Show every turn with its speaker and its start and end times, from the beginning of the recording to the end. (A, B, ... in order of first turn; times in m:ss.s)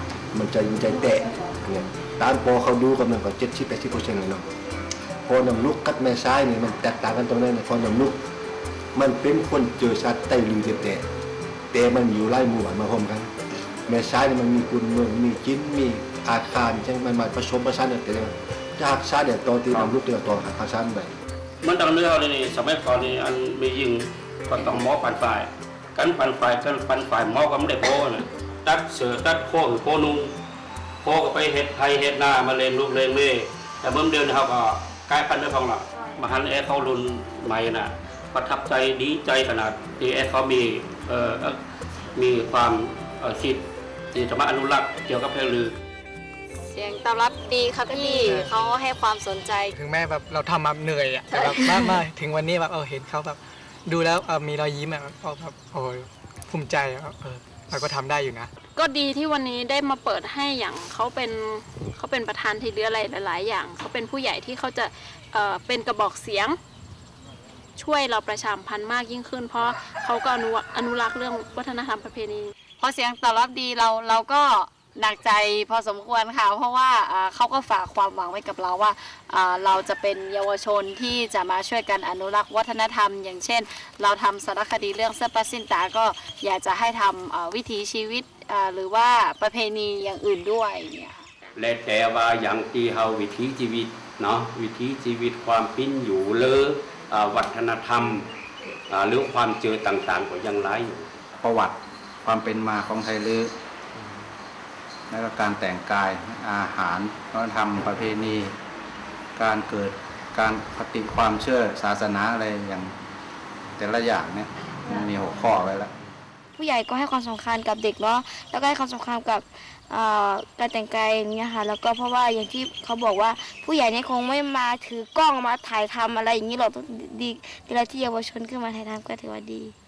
0:00.3-0:04.5 A
0:05.2-0:08.2 A
0:08.9-0:11.0 A
0:11.7-0:13.3 A
0:13.9-0:21.1 A
0:21.6-0:30.3 B
0:31.0-0:41.6 B
0:42.2-0:45.7 B
0:46.6-0:49.7 C
0:48.2-0:48.5 D
0:49.7-0:58.5 D
0:58.7-1:06.6 E
1:07.8-1:12.5 E
1:12.8-1:31.3 C
1:31.6-1:38.3 B
1:38.9-1:41.2 B
1:41.4-1:43.5 F
1:45.1-1:48.5 F
1:49.4-1:52.9 F
1:53.8-1:55.9 F
1:56.6-2:09.7 G